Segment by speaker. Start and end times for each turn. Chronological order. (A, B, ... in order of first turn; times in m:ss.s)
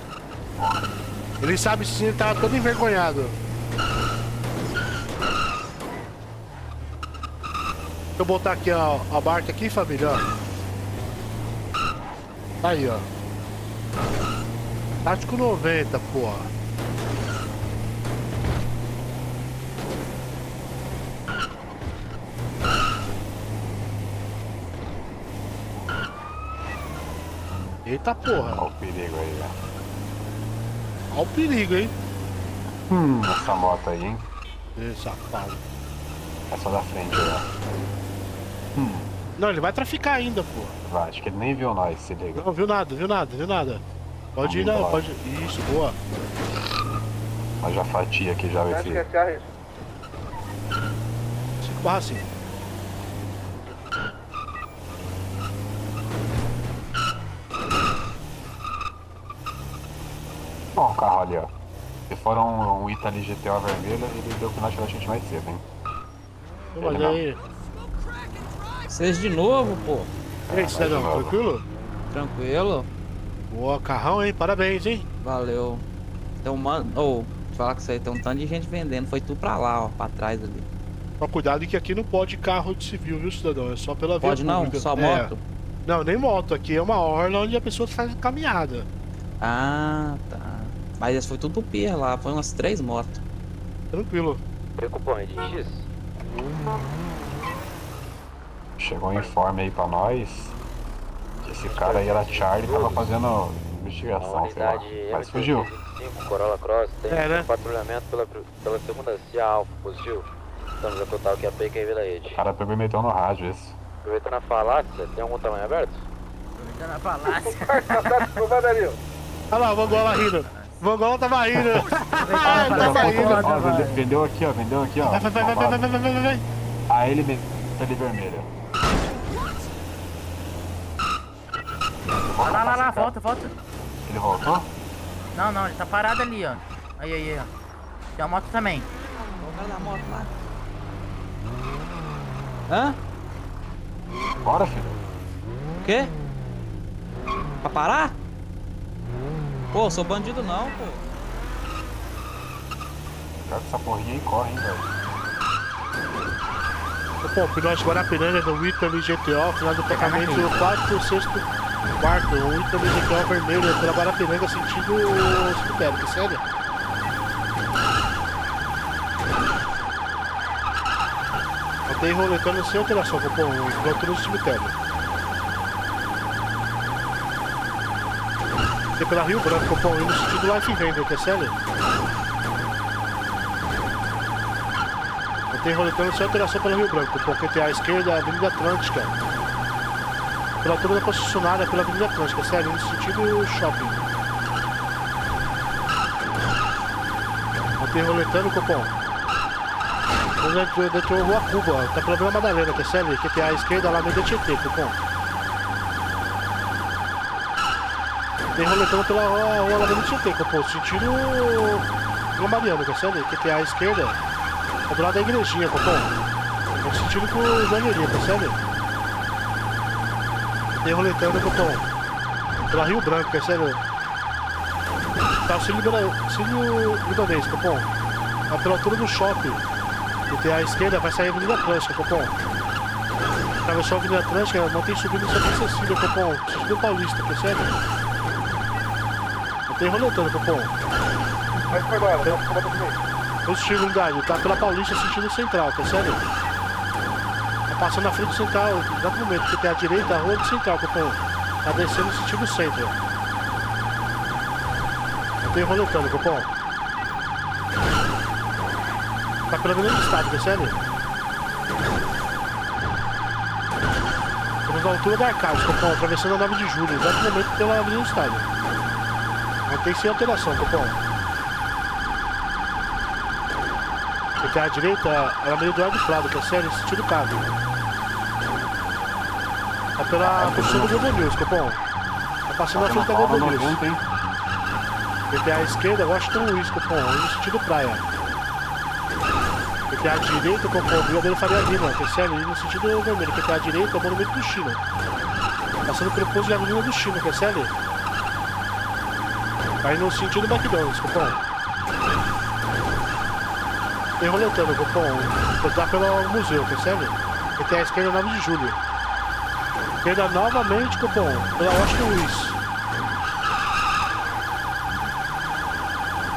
0:00.6-0:00.8 A
0:01.4-0:03.4 B
0:08.2-0:10.2 B
0:12.6-0:13.0 B
0:15.0-0:16.5 B
0:27.8-0:28.7 B
0:28.5-0:29.5 A
0:31.1-0:31.9 B
0:32.9-0:34.3 A
0:34.8-0:35.6 B
0:36.5-0:37.4 A
0:38.8-0:39.1 A
0:39.4-0:40.8 B
0:40.9-0:42.5 A
0:42.3-0:43.8 B
0:44.4-0:46.0 B
0:44.4-0:45.0 A
0:47.6-0:49.1 A
0:48.7-0:49.5 C
0:51.6-0:52.3 B
1:00.7-1:01.5 A
1:02.1-1:05.6 A
1:06.7-1:07.4 B
1:06.8-1:07.2 A
1:08.9-1:10.1 D
1:10.5-1:11.4 A
1:10.5-1:11.6 B
1:12.1-1:12.9 D
1:13.5-1:15.0 B
1:15.2-1:15.8 D
1:16.4-1:20.7 D
1:21.2-1:25.3 B
1:24.2-1:25.4 D
1:25.8-1:28.9 B
1:29.4-1:33.2 D
1:33.9-1:34.4 B
1:34.8-1:35.9 E
1:38.8-1:40.6 A
1:41.4-1:45.7 A
1:41.7-1:43.2 E
1:44.2-1:50.3 E
1:47.1-1:47.5 B
1:50.8-1:52.4 E
1:52.3-1:53.8 A
1:54.0-1:56.0 E
1:56.6-1:58.1 F
1:57.3-1:59.0 C
1:59.5-2:03.4 B
1:59.8-2:00.8 F
2:02.2-2:04.0 F
2:02.4-2:05.8 A
2:05.0-2:06.4 B
2:06.9-2:08.5 A
2:12.1-2:13.1 A
2:12.4-2:13.5 F
2:14.0-2:14.7 A
2:15.3-2:17.5 F
2:18.2-2:18.9 F
2:19.4-2:20.3 D
2:22.7-2:23.0 D
2:24.4-2:25.0 A
2:25.8-2:26.1 D
2:27.6-2:28.2 D
2:29.7-2:31.0 D
2:33.4-2:34.9 A
2:37.2-2:46.4 B
2:39.9-2:40.5 F
2:51.9-2:54.7 B
2:59.0-3:01.6 B
3:05.5-3:09.2 B
3:10.6-3:14.1 B
3:17.8-3:18.9 B
3:20.4-3:25.0 B
3:28.5-3:34.2 B
3:34.9-3:36.2 B
3:36.8-3:38.6 B
3:40.8-3:41.8 B
3:42.6-3:43.8 B
3:45.5-3:47.9 B
3:48.5-3:49.6 B
3:50.3-3:52.4 B
3:53.6-3:57.7 B
3:59.7-4:00.7 B
4:01.7-4:03.0 C
4:03.4-4:06.2 B
4:07.7-4:13.0 B
4:15.4-4:16.5 B
4:19.5-4:20.8 B
4:24.6-4:28.5 B
4:29.6-4:31.0 B
4:34.4-4:37.5 B
4:40.0-4:41.8 B
4:40.2-4:41.0 A
4:42.5-4:43.8 B
4:42.7-4:44.0 A
4:45.3-4:48.0 B
4:49.9-4:54.8 B
4:55.8-4:57.7 B
4:59.8-5:01.4 B
5:04.2-5:08.8 B
5:10.0-5:12.6 B